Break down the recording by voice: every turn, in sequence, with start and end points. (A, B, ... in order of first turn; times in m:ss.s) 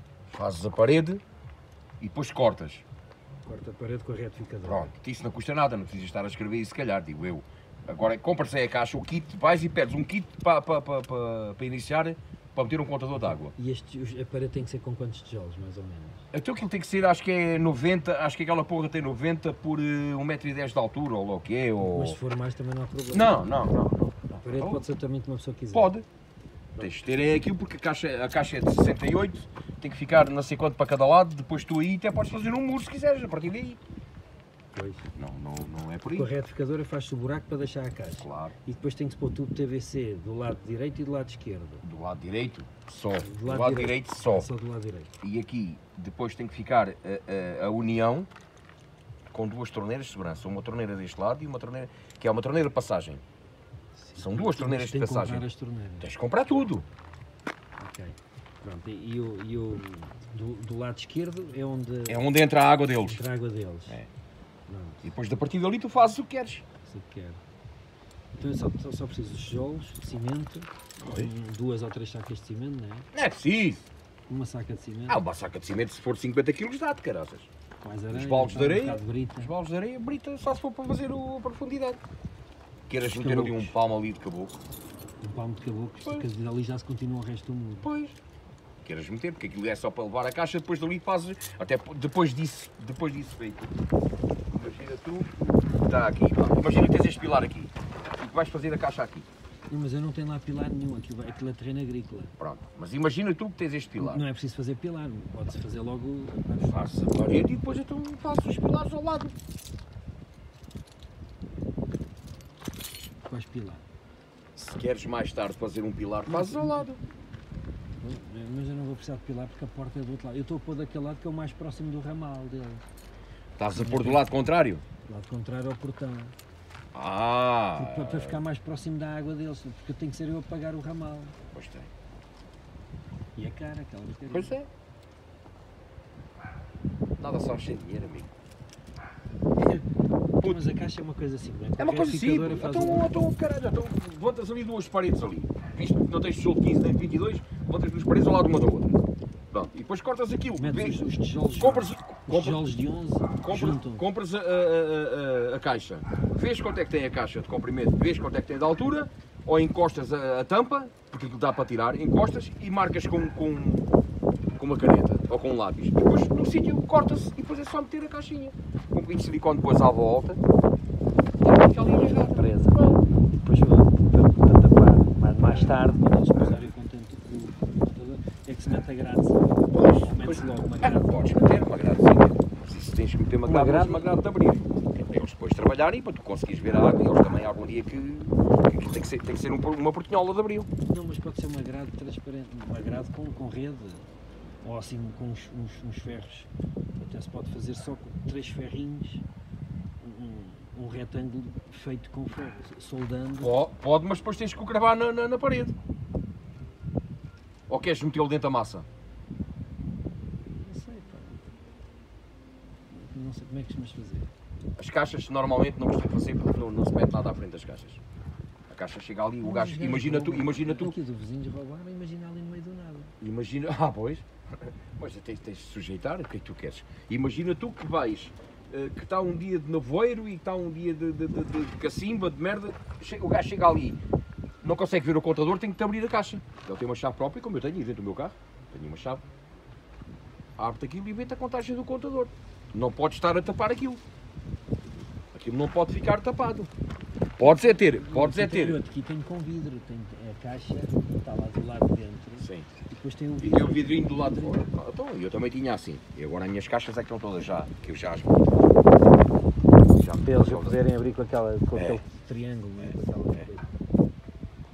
0:00.3-0:01.2 A
0:02.0-0:02.8 A
0:03.4-0:04.9 B
0:04.6-0:13.5 A
0:13.5-0:16.2 B
0:16.3-0:22.2 A
0:21.8-0:23.7 B
0:23.1-0:24.8 A
0:24.4-0:25.9 B
0:25.7-0:26.0 A
0:26.8-0:33.8 A
0:34.7-0:35.1 B
0:35.1-0:36.3 A
0:36.1-0:41.8 B
0:38.2-0:38.5 A
0:41.8-0:44.5 A
0:43.2-0:45.1 B
0:45.2-0:48.3 A
0:49.3-0:53.2 A
0:54.0-0:56.1 B
0:54.2-0:55.4 A
0:56.0-0:56.8 A
0:57.8-1:02.2 B
1:02.1-1:03.2 A
1:02.9-1:04.0 B
1:04.7-1:05.1 B
1:05.0-1:06.6 A
1:06.8-1:07.4 B
1:08.4-1:13.1 B
1:11.0-1:11.3 A
1:13.1-1:13.9 A
1:14.3-1:15.2 B
1:15.1-1:17.5 A
1:17.8-1:19.5 B
1:18.1-1:22.0 A
1:22.9-1:24.6 A
1:23.0-1:23.7 B
1:25.2-1:27.9 B
1:26.0-1:26.2 A
1:27.8-1:28.2 A
1:28.8-1:33.7 A
1:34.5-1:39.3 A
1:39.7-1:42.3 B
1:42.4-1:44.2 A
1:44.0-1:47.0 B
1:46.6-1:49.3 A
1:53.2-1:53.8 B
1:54.6-1:57.0 A
1:56.2-1:56.9 B
1:58.0-2:02.8 B
2:03.6-2:04.8 A
2:03.7-2:04.2 B
2:05.0-2:06.3 B
2:06.9-2:08.4 A
2:07.7-2:11.3 B
2:11.5-2:11.9 A
2:13.4-2:14.6 B
2:14.3-2:14.7 A
2:17.2-2:18.3 A
2:20.4-2:23.2 B
2:21.8-2:29.0 A
2:29.5-2:32.6 A
2:30.6-2:34.0 B
2:33.4-2:43.9 A
2:44.6-2:50.4 A
2:51.4-2:53.0 A
2:51.6-2:52.8 B
2:53.3-3:01.7 B
2:59.7-3:10.7 A
3:03.4-3:04.3 B
3:10.8-3:14.1 B
3:14.6-3:19.2 B
3:20.0-3:23.6 B
3:23.4-3:25.7 A
3:27.7-3:28.8 A
3:30.5-3:31.5 B
3:32.9-3:34.3 B
3:34.8-3:38.0 A
3:38.7-3:40.9 A
3:39.4-3:43.1 B
3:43.2-3:54.0 A
3:54.6-3:59.2 A
4:00.6-4:04.0 A
4:05.3-4:06.7 A
4:07.4-4:08.8 A
4:07.4-4:14.7 B
4:12.4-4:12.7 A
4:13.4-4:18.3 A
4:19.9-4:20.8 A
4:20.2-4:23.6 B
4:21.7-4:22.0 A
4:22.8-4:23.4 A